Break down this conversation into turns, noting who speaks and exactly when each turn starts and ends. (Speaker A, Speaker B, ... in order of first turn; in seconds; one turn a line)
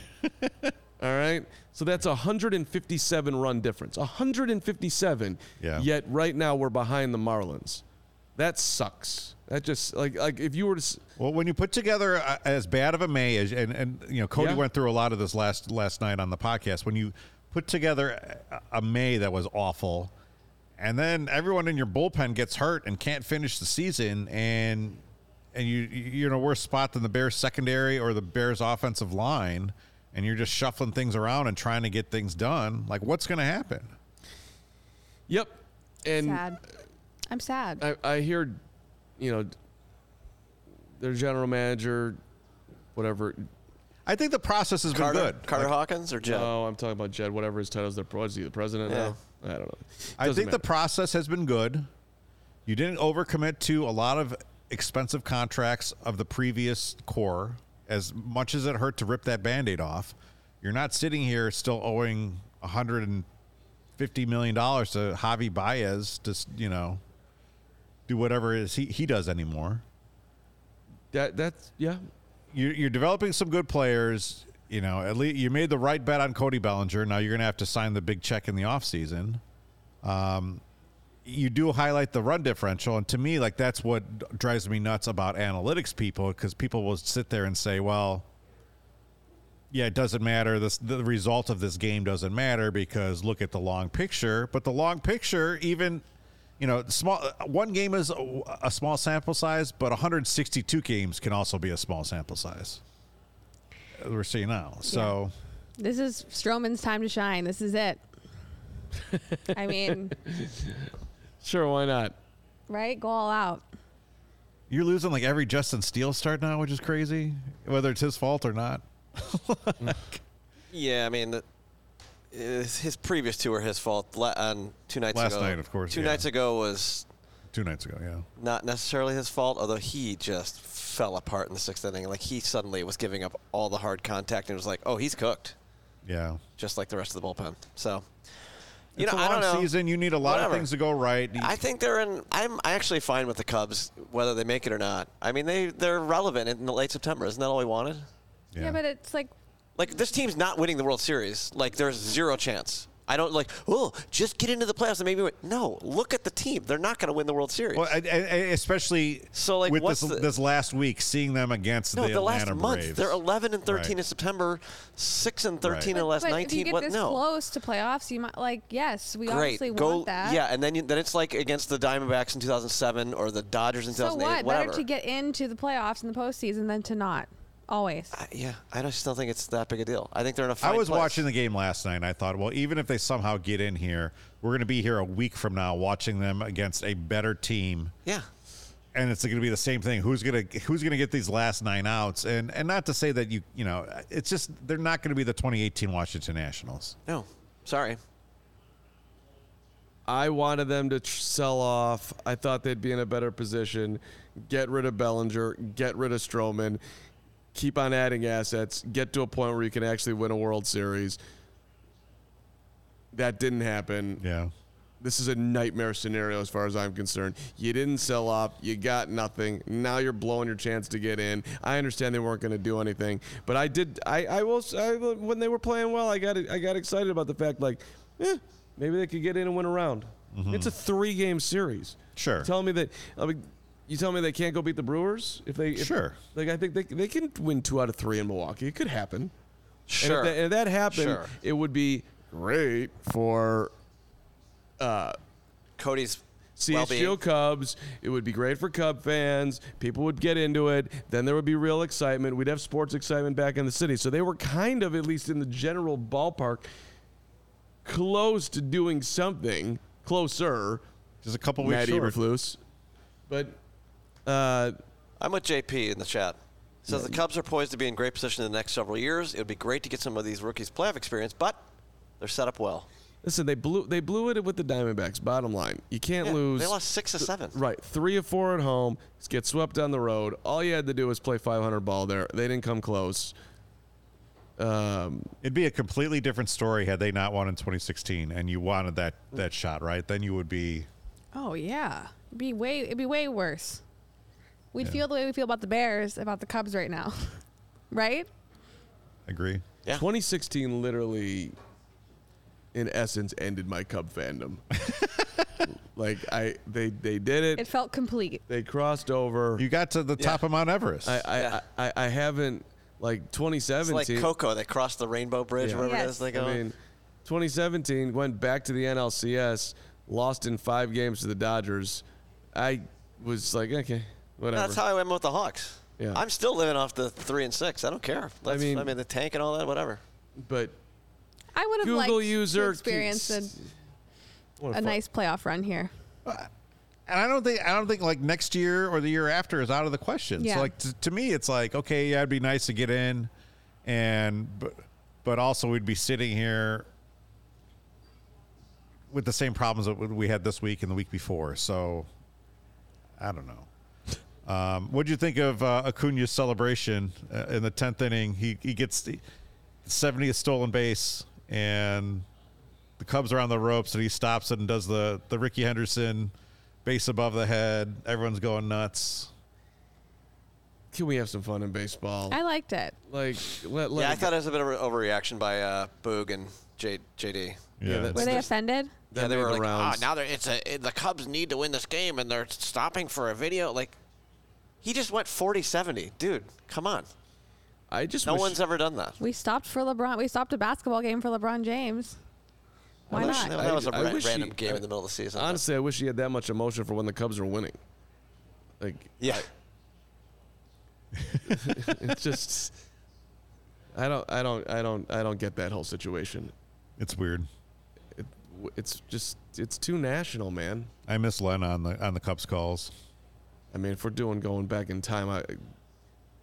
Speaker A: 0.2-0.7
Speaker B: 1.0-7.8
Speaker A: 5.6-5.9
Speaker B: 8.4-11.0
Speaker A: 11.2-20.1
Speaker B: 14.3-14.6
Speaker A: 20.8-25.0
Speaker A: 25.5-33.9
Speaker B: 35.3-36.4
Speaker C: 36.1-36.6
Speaker C: 37.3-37.8
Speaker B: 37.8-38.6
Speaker B: 39.2-39.5
Speaker B: 41.0-42.2
Speaker B: 42.9-43.5
Speaker A: 44.0-45.7
Speaker D: 44.9-46.5
Speaker B: 46.2-50.6
Speaker D: 48.9-49.1
Speaker A: 50.2-51.9
Speaker A: 52.6-63.3
Speaker A: 64.0-67.0
Speaker A: 68.1-69.8
Speaker B: 71.1-72.0
Speaker A: 72.5-79.4
Speaker A: 80.0-80.6
Speaker A: 81.2-88.3
Speaker A: 89.7-96.0
Speaker A: 96.6-102.8
Speaker A: 104.0-105.3
Speaker C: 104.8-105.1
Speaker C: 105.8-108.0
Speaker B: 109.1-110.9
Speaker C: 109.5-110.2
Speaker B: 111.4-112.2
Speaker C: 112.7-113.7
Speaker A: 114.7-120.2
Speaker D: 120.7-121.4
Speaker D: 122.3-127.1
Speaker A: 125.1-126.2
Speaker A: 127.5-128.2
Speaker D: 128.4-135.5
Speaker A: 136.1-136.4
Speaker D: 136.6-138.0
Speaker D: 138.9-140.7
Speaker A: 139.0-141.6
Speaker D: 141.4-148.1
Speaker A: 148.5-148.8
Speaker C: 148.6-149.3
Speaker D: 149.8-157.9
Speaker A: 157.7-163.9
Speaker D: 159.3-160.3
Speaker D: 161.9-167.2
Speaker A: 165.6-165.9
Speaker C: 165.9-170.4
Speaker D: 169.2-174.8
Speaker C: 173.9-178.1
Speaker D: 178.1-181.2
Speaker A: 180.6-187.9
Speaker A: 188.9-196.9
Speaker D: 197.1-198.0
Speaker B: 200.1-206.8
Speaker B: 207.5-211.2
Speaker B: 213.1-214.2
Speaker A: 214.2-214.5
Speaker B: 215.0-239.3
Speaker A: 230.3-230.7
Speaker A: 232.2-232.5
Speaker A: 235.7-236.2
Speaker D: 239.9-240.4
Speaker B: 240.0-243.7
Speaker D: 240.9-241.3
Speaker B: 244.8-245.2
Speaker D: 245.8-247.2
Speaker B: 246.6-256.7
Speaker B: 257.8-260.8
Speaker A: 261.2-262.2
Speaker B: 261.6-262.6
Speaker B: 263.3-263.6
Speaker B: 264.2-264.8
Speaker D: 265.2-271.6
Speaker B: 266.9-267.2
Speaker D: 272.2-272.9
Speaker B: 273.2-276.7
Speaker D: 276.2-277.6
Speaker B: 277.5-283.3
Speaker B: 284.6-285.3
Speaker A: 285.4-290.9
Speaker C: 291.3-293.8
Speaker C: 294.7-297.3
Speaker C: 297.9-298.3
Speaker A: 299.3-299.6
Speaker B: 300.0-301.5
Speaker B: 302.7-304.6
Speaker A: 304.9-305.4
Speaker B: 305.6-307.6
Speaker C: 307.6-308.4
Speaker B: 308.5-309.6
Speaker A: 309.6-311.2
Speaker B: 311.0-314.3
Speaker D: 311.4-311.6
Speaker D: 313.8-316.6
Speaker B: 315.6-324.8
Speaker C: 315.8-316.2
Speaker D: 324.5-330.0
Speaker B: 328.5-328.9
Speaker B: 330.4-330.8
Speaker C: 331.5-333.5
Speaker B: 331.8-333.6
Speaker B: 334.6-335.0
Speaker C: 334.7-335.9
Speaker A: 337.1-343.3
Speaker C: 340.4-340.7
Speaker A: 343.8-346.9
Speaker A: 349.1-352.1
Speaker A: 353.2-353.7
Speaker A: 354.4-359.2
Speaker A: 359.8-362.2
Speaker A: 363.0-366.3
Speaker A: 366.8-369.3
Speaker B: 370.9-372.4
Speaker C: 372.3-372.9
Speaker B: 373.1-374.3
Speaker D: 373.9-378.4
Speaker A: 377.8-378.3
Speaker B: 377.8-378.5
Speaker C: 378.1-378.9
Speaker B: 379.1-380.1
Speaker D: 379.1-384.0
Speaker D: 384.8-387.1
Speaker B: 387.9-388.6
Speaker D: 388.2-389.2
Speaker C: 389.2-392.1
Speaker B: 393.1-394.8
Speaker C: 393.1-393.5
Speaker D: 393.1-395.6
Speaker B: 395.4-397.8
Speaker B: 398.8-399.4
Speaker D: 399.2-399.4
Speaker A: 401.2-401.8
Speaker B: 401.4-402.7
Speaker B: 403.9-406.5
Speaker A: 407.0-407.5
Speaker B: 408.1-410.9
Speaker A: 411.1-412.9
Speaker B: 413.7-415.6